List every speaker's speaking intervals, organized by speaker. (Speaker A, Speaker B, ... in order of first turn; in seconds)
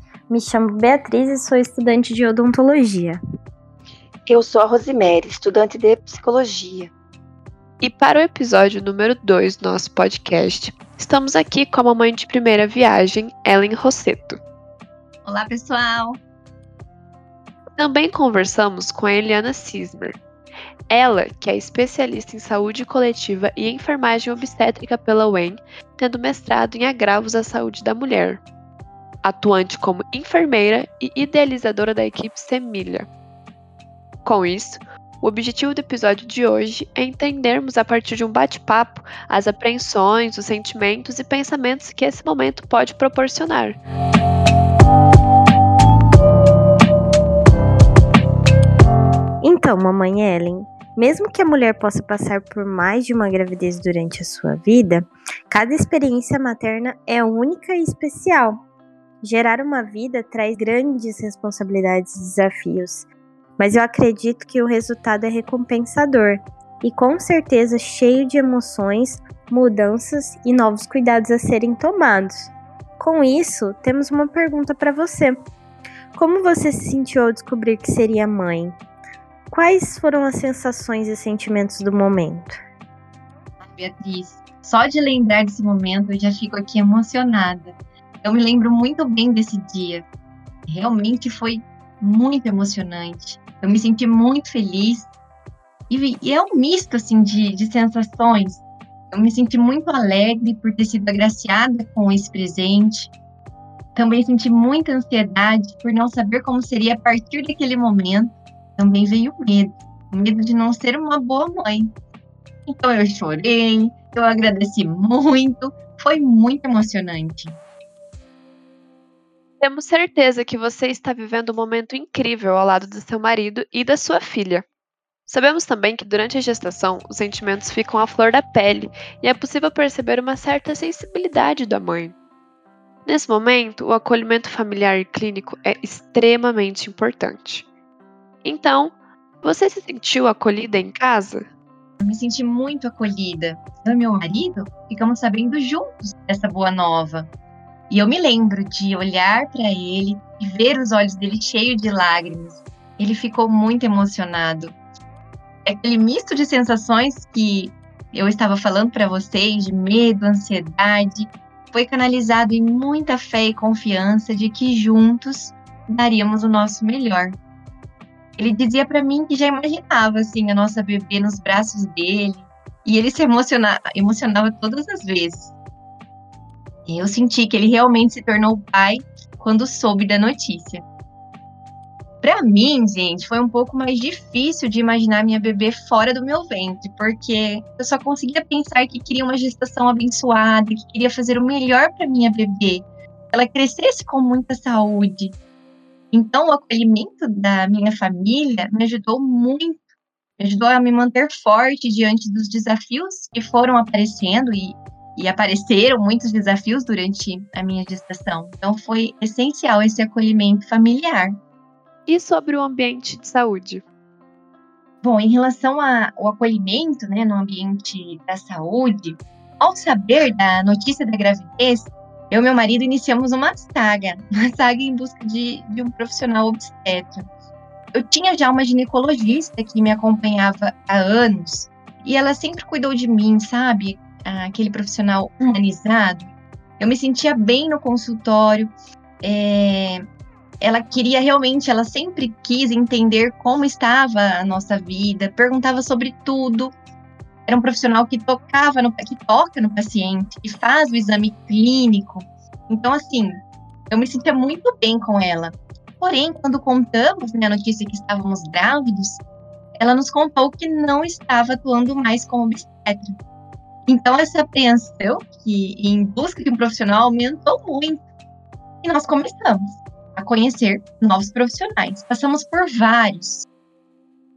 Speaker A: 0.3-3.2, 49.4-58.6, 59.2-63.1, 63.6-75.5, 76.1-78.8, 79.5-82.6
Speaker B: 4.3-6.9
Speaker C: 7.8-14.4, 17.8-20.2, 20.9-28.4, 29.2-33.1, 34.2-43.8, 119.6-124.7, 125.3-132.1, 133.1-137.7, 138.4-141.5, 212.1-213.8
Speaker D: 15.2-16.2, 83.6-90.0, 90.7-95.1, 95.9-103.1, 104.0-111.9, 112.7-117.6, 142.0-147.3, 147.9-154.8, 155.7-167.4, 168.4-175.5, 176.9-180.8, 182.2-195.4, 196.1-199.8, 200.4-211.3, 215.0-227.2, 227.9-238.7, 239.2-240.0, 240.6-246.7, 247.5-259.2, 259.8-263.1, 263.9-268.0, 268.8-273.5